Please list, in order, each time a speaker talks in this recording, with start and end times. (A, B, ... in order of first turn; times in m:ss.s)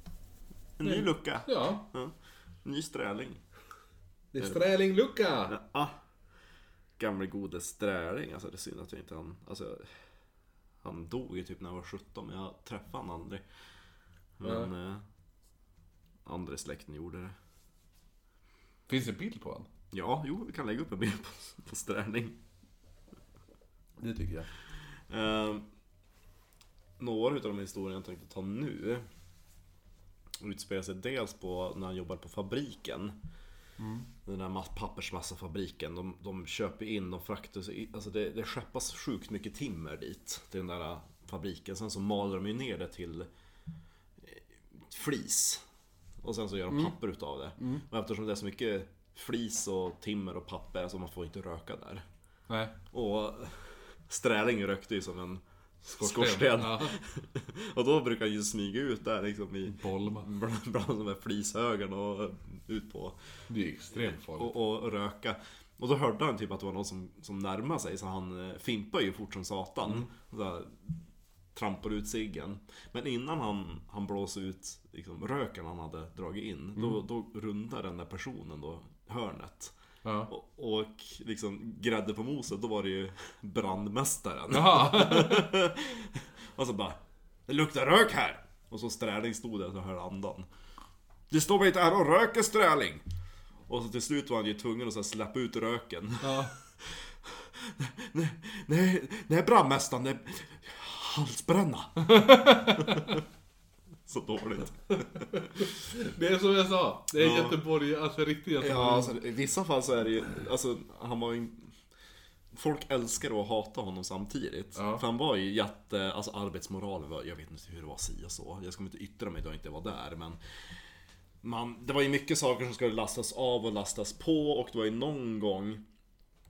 0:00.8-0:02.1 A
0:00.8-0:01.8 B
0:02.6-0:03.4 A
0:04.3-0:05.5 B
0:05.5-0:05.9 A
0:07.0-0:09.9 A
0:10.8-0:13.4 A
0:14.4-0:15.0 A
0:14.4-0:14.7 B
0:16.2-0:17.3 A
0:18.9-0:19.7 B
0:19.9-0:22.4 A
0:24.0-0:24.5 B
0:25.1-0:25.6 A
0:27.0-0:29.0 A
0:30.4-0:33.1 A
0:33.8-0:34.1 B
0:34.2-0:43.3 A
0:44.2-0:45.6 A
0:46.2-0:52.0 A
0:52.5-0:52.7 B
0:52.9-1:03.2 A
0:55.9-0:56.9 B
0:59.6-1:00.3 B
1:03.5-1:04.5 B
1:04.2-1:10.9 A
1:09.8-1:10.1 B
1:11.5-1:19.7 A
1:20.0-1:20.3 B
1:20.3-1:30.4 A
1:24.5-1:25.5 B
1:31.3-1:33.0 A
1:33.7-1:43.2 A
1:36.2-1:36.5 B
1:42.0-1:43.2 B
1:44.0-1:45.2 A
1:45.0-1:49.2 B
1:47.2-1:47.6 A
1:48.6-1:51.7 A
1:52.5-2:00.4 A
1:54.8-1:55.0 B
2:01.4-2:05.8 A